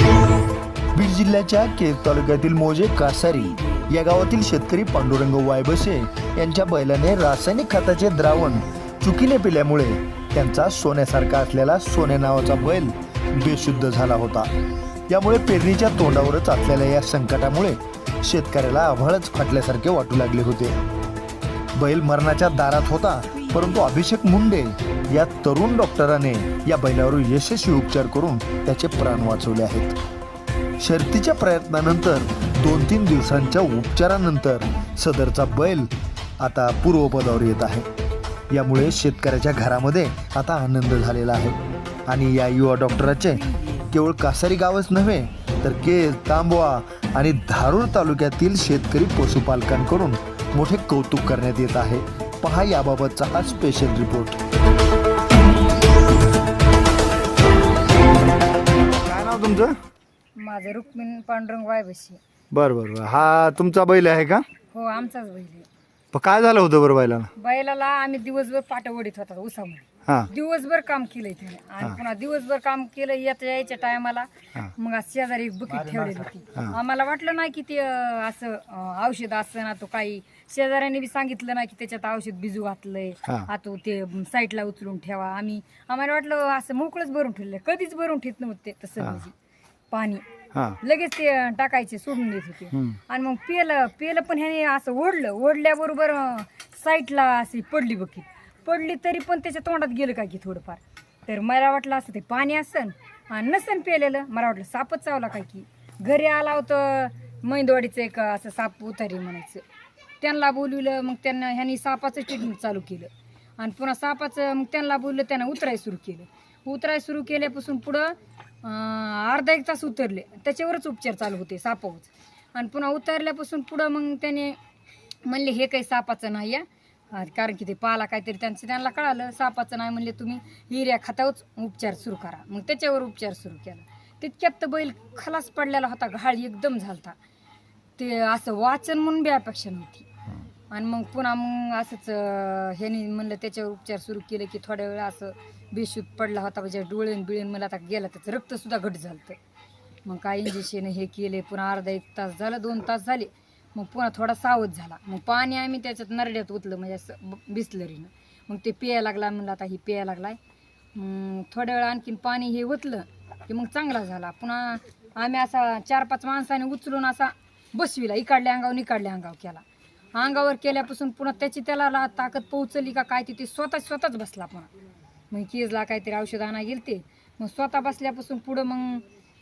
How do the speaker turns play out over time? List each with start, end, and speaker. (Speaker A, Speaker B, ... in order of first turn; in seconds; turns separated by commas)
Speaker A: 0.9-14.5, Speaker A: 15.1-20.8, Speaker A: 21.7-29.9, Speaker A: 30.8-37.9, Speaker A: 38.5-54.4, Speaker B: 59.0-59.7, Speaker C: 60.4-62.2, Speaker B: 62.5-64.4, Speaker C: 64.7-65.7, Speaker B: 66.1-67.3, Speaker C: 67.4-89.3, Speaker B: 75.7-76.7, Speaker C: 89.9-90.2, Speaker C: 90.8-109.6, Speaker C: 110.2-124.6, Speaker C: 125.2-137.2, Speaker C: 138.0-140.0, Speaker C: 140.7-149.4, Speaker C: 150.0-160.4, Speaker C: 160.9-169.6, Speaker C: 170.1-174.7, Speaker C: 175.3-179.0